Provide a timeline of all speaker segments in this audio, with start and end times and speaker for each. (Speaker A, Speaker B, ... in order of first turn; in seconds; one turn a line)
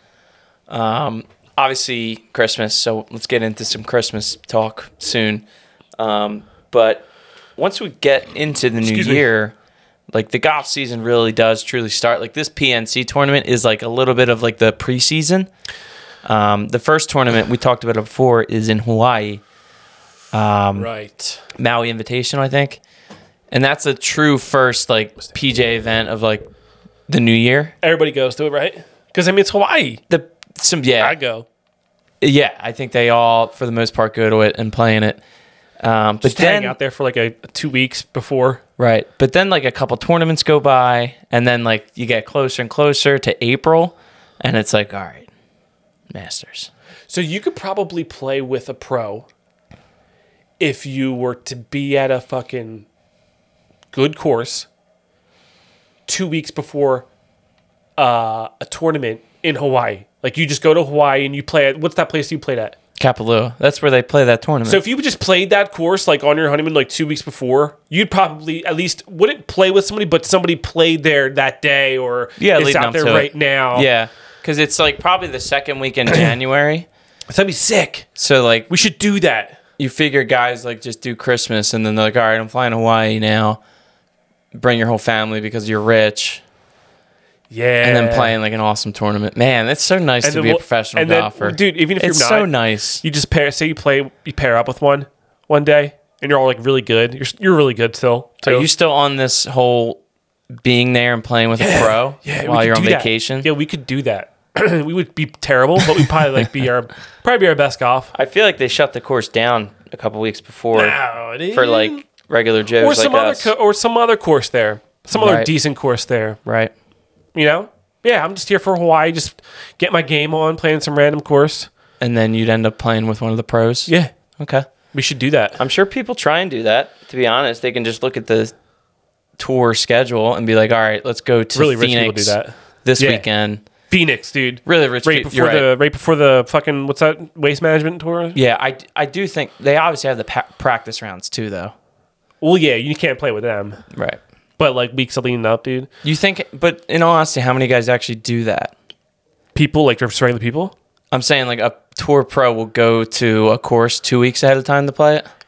Speaker A: 0.7-5.5
Speaker A: 6.0-7.1
Speaker A: 7.6-9.6
Speaker B: 8.8-9.2
Speaker A: 10.1-15.5
Speaker A: 16.2-19.4
Speaker A: 20.3-20.9
Speaker B: 20.8-21.4
Speaker A: 21.6-22.8
Speaker A: 23.5-26.4
Speaker A: 27.1-27.7
Speaker B: 27.8-30.0
Speaker A: 30.1-31.1
Speaker B: 31.0-31.5
Speaker A: 32.2-35.2
Speaker A: 35.8-36.8
Speaker B: 36.2-38.6
Speaker A: 38.8-45.3
Speaker A: 46.1-46.7
Speaker B: 47.1-49.3
Speaker B: 50.6-52.9
Speaker B: 53.9-54.7
Speaker B: 56.1-57.1
Speaker B: 58.0-62.8
Speaker A: 63.0-64.8
Speaker B: 64.7-73.9
Speaker A: 72.4-76.9
Speaker B: 77.3-78.1
Speaker A: 78.2-78.7
Speaker B: 78.7-79.6
Speaker A: 79.8-83.6
Speaker A: 84.5-86.4
Speaker B: 87.5-88.3
Speaker A: 87.8-93.0
Speaker B: 90.2-92.5
Speaker B: 93.0-98.7
Speaker A: 98.4-100.0
Speaker A: 100.6-103.5
Speaker B: 101.6-108.1
Speaker A: 108.1-111.0
Speaker B: 110.7-112.1
Speaker A: 111.5-113.5
Speaker B: 112.8-116.4
Speaker A: 115.1-115.5
Speaker A: 116.5-116.7
Speaker B: 117.3-121.7
Speaker A: 122.0-124.7
Speaker B: 124.9-125.6
Speaker A: 125.6-128.5
Speaker A: 129.4-133.6
Speaker B: 131.6-133.3
Speaker B: 133.9-138.4
Speaker A: 134.6-135.7
Speaker A: 138.3-141.7
Speaker B: 142.4-143.8
Speaker A: 143.9-144.2
Speaker B: 144.6-145.9
Speaker A: 146.0-148.7
Speaker B: 149.6-150.7
Speaker A: 151.1-155.3